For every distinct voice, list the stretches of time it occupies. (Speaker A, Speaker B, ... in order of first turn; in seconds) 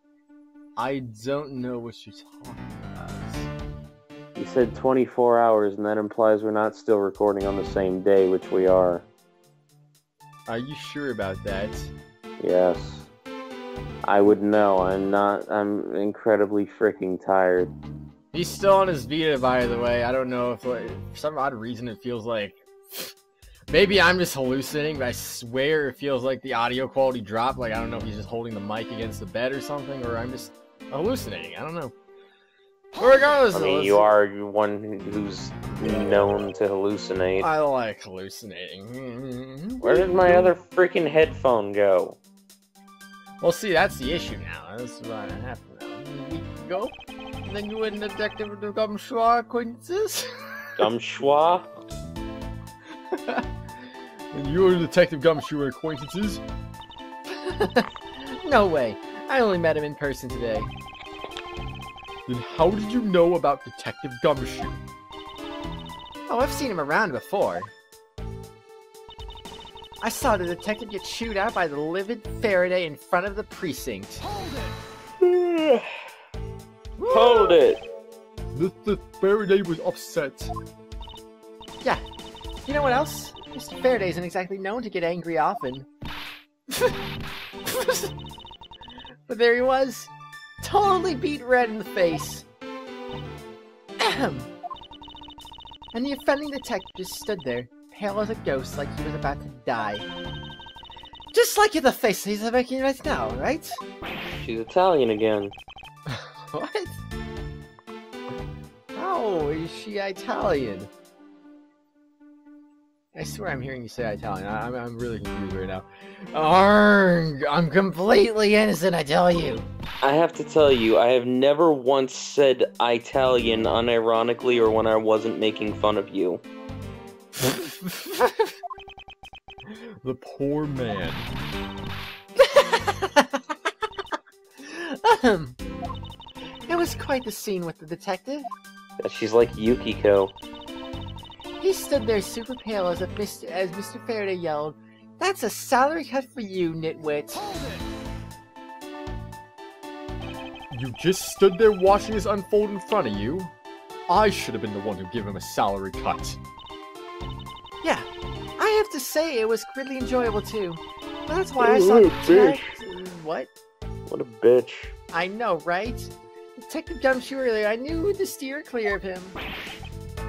Speaker A: 0.8-3.5, 10.5-11.9, 18.3-23.1, 23.7-31.9, 33.0-34.0, 37.4-40.6, 43.4-50.8, 53.1-53.5, 54.3-56.4, 57.3-60.7, 62.3-64.8, 66.3-67.7, 70.0-74.3, 77.0-77.6, 78.5-80.5, 82.7-85.9, 86.7-87.0, 87.7-88.1, 89.3-92.5, 94.0-94.5, 95.9-100.1, 101.3-103.8, 106.1-107.0, 109.0-110.9, 113.2-119.7, 127.4-128.5, 129.7-131.3, 132.4-133.5, 134.6-135.6, 136.7-138.5, 141.6-147.5, 150.7-153.5, 154.1-156.4, 158.6-163.5, 165.1-169.4
Speaker B: 4.4-9.1, 12.4-13.1, 14.0-17.7, 33.5-37.5, 39.8-42.2, 50.8-51.7, 75.2-75.9, 77.1-77.8, 104.4-105.5, 120.0-126.4, 139.0-140.3, 161.6-162.8, 164.1-164.9